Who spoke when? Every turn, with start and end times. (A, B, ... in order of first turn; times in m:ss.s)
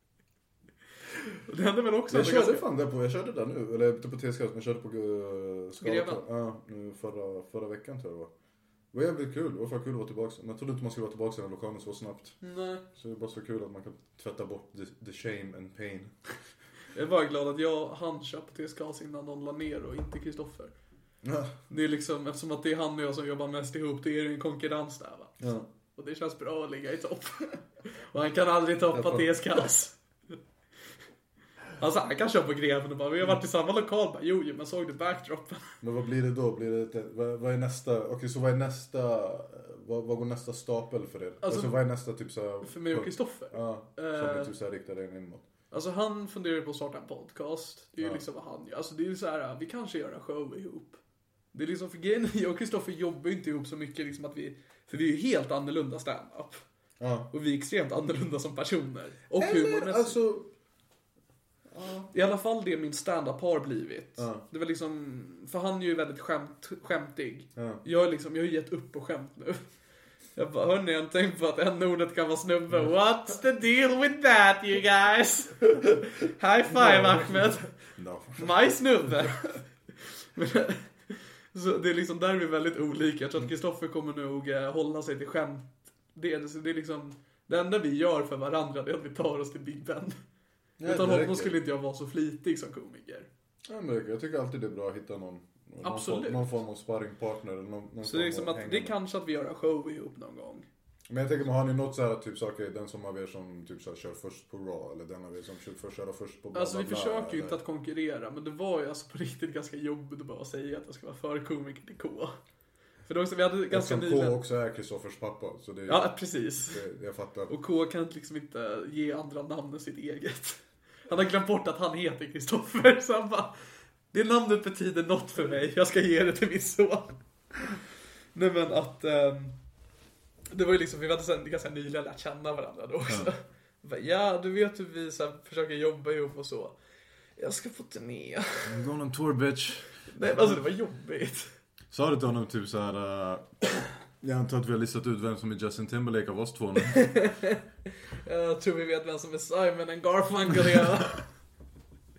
0:01.4-0:02.6 A
0:02.1-0:08.3 B
0:05.8-0:06.2 A
0:08.9-0:12.4 B
0:12.4-0:12.8 A
0:12.9-0:16.2 B
0:16.9-0:20.7 A
0:21.2-0:21.5 B
0:21.7-0:25.4 A
0:25.4-0:25.7 B
0:26.0-0:30.0 A
0:28.9-0:29.4 B
0:31.8-0:35.7 A
0:35.8-0:45.4 B
0:41.4-0:41.8 A
0:42.6-0:44.5 A
0:45.7-0:51.0 A
0:51.5-0:56.6 A
0:57.0-0:57.3 B
0:57.3-1:00.2 A
0:59.3-1:00.5 B
1:01.7-1:02.1 B
1:02.1-1:09.6 A
1:04.2-1:04.4 B
1:07.6-1:07.8 B
1:10.4-1:17.7 A
1:16.7-1:18.5 B
1:18.4-1:19.6 A
1:20.3-1:30.2 A
1:30.8-1:31.5 B
1:30.8-1:33.3 A
1:33.6-1:38.9 B
1:35.8-1:36.5 A
1:38.0-1:40.6 A
1:41.1-1:47.6 B
1:46.5-1:52.3 A
1:53.1-1:54.4 A
1:53.7-1:57.5 B
1:55.9-1:56.8 A
1:57.5-2:03.5 A
2:04.1-2:07.2 A
2:08.3-2:09.6 A
2:10.5-2:16.7 A
2:13.1-2:13.3 B
2:17.4-2:18.9 A
2:18.6-2:20.6 B
2:20.1-2:21.5 A
2:21.9-2:23.5 B
2:24.1-2:27.2 B
2:26.9-2:27.6 A
2:28.2-2:31.2 A